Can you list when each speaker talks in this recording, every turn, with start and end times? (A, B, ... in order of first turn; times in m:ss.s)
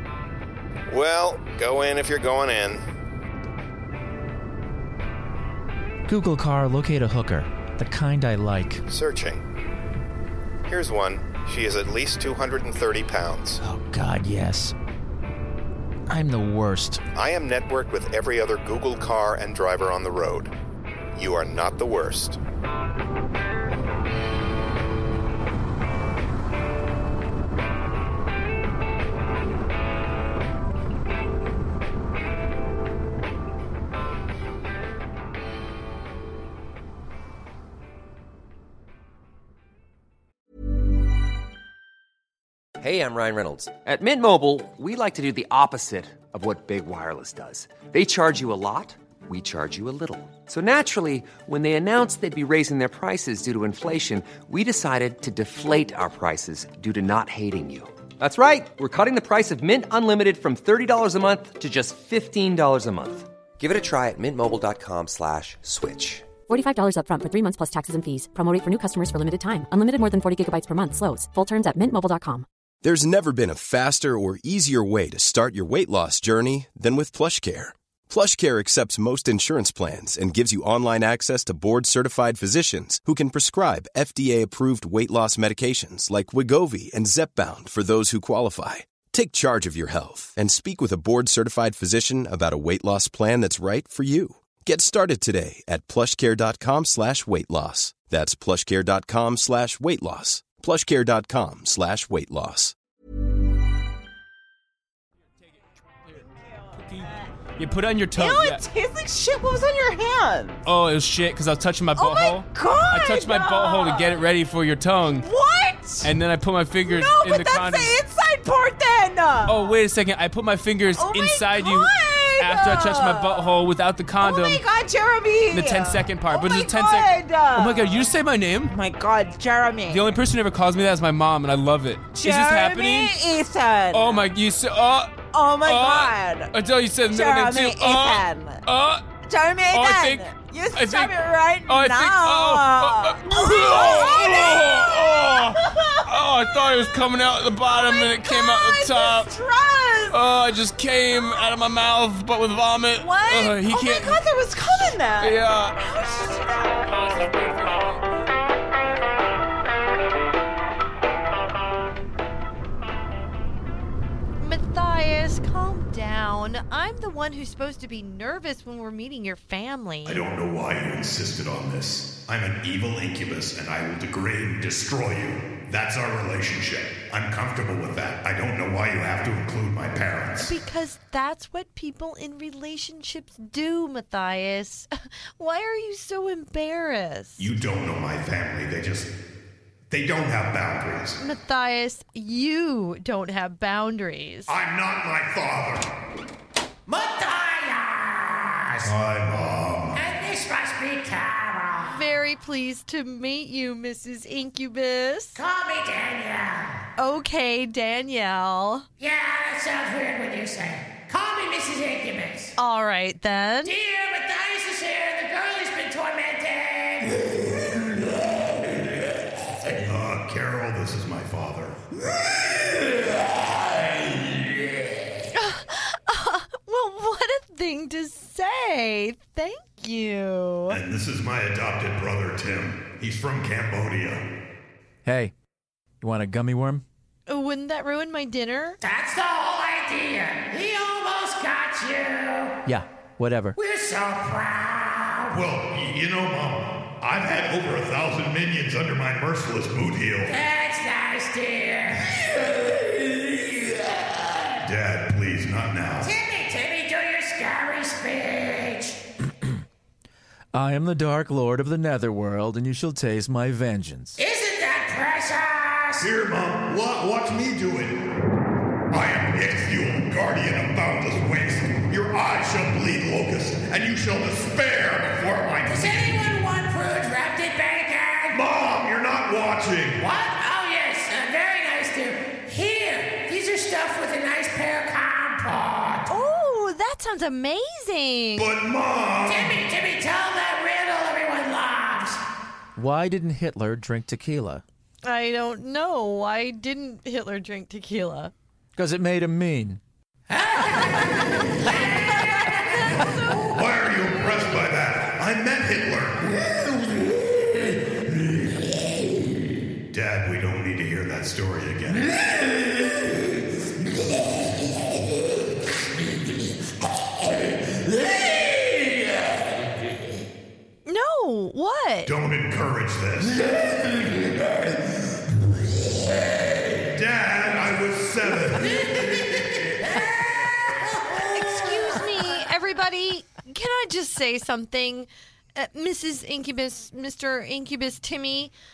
0:00.9-0:02.8 A
0:06.1-0:08.8 B
0:08.9-0:09.4 A
0:10.7-0:13.6 A
0:13.6-0:14.7 B
0:16.1-0:17.0 B
0:17.2-0:20.5 A
0:21.2-0:22.4 A
0:42.8-1:06.3 C
1:06.5-1:12.4 D
1:12.8-1:42.7 E
1:46.7-1:48.6 F
1:48.2-1:50.6 G
1:50.6-1:55.3 F
1:52.0-1:54.2 G
1:55.2-1:56.1 G
1:56.0-1:58.0 F
1:56.8-1:59.8 G
1:59.5-2:04.6 F
2:01.0-2:03.6 G
2:04.2-2:08.1 G
2:05.5-2:08.7 F
2:08.6-2:10.2 G
2:09.9-2:13.2 F
2:12.1-2:14.3 G
2:13.9-2:19.2 F
2:15.3-2:16.5 G
2:17.1-2:18.6 G
2:19.2-2:26.1 G
2:19.7-2:29.3 F
2:27.7-2:30.2 G
2:30.1-2:35.8 F
2:33.0-2:37.0 G
2:36.8-2:38.0 F
2:44.4-2:50.2 H
2:50.0-3:00.5 I
3:00.4-3:07.5 H
3:07.4-3:09.1 I
3:09.9-3:11.2 I
3:11.2-3:14.6 H
3:14.5-3:15.9 I
3:16.9-3:18.9 J
3:18.8-3:20.0 I
3:19.9-3:22.0 J
3:21.9-3:25.4 H
3:25.4-3:26.8 J
3:27.0-3:28.9 H
3:29.0-3:32.6 J
3:32.6-3:33.7 H
3:33.6-3:37.2 J
3:39.8-3:41.8 I
3:45.3-3:50.8 H
3:50.7-3:54.2 I
3:55.0-3:55.3 B
3:56.0-3:56.8 B
3:57.3-3:58.8 H
3:58.8-4:02.5 J
4:02.7-4:03.6 B
4:03.6-4:05.4 J
4:05.3-4:10.4 I
4:10.3-4:12.1 J
4:14.6-4:16.1 I
4:16.0-4:19.0 J
4:20.5-4:24.2 B
4:24.2-4:26.1 J
4:26.0-4:28.0 I
4:28.9-4:36.3 I
4:35.7-4:38.4 J
4:38.3-4:40.0 I
4:40.0-4:46.1 J
4:46.1-4:48.5 H
4:48.4-4:49.6 I
4:49.2-4:52.2 J
4:52.8-4:54.6 B
4:55.0-4:58.3 H
4:58.8-4:59.8 B
5:02.6-5:03.3 H
5:03.5-5:06.4 I
5:09.9-5:12.1 I
5:20.8-5:22.1 H
5:22.0-5:23.4 I
5:26.9-5:29.2 I
5:31.1-5:38.5 H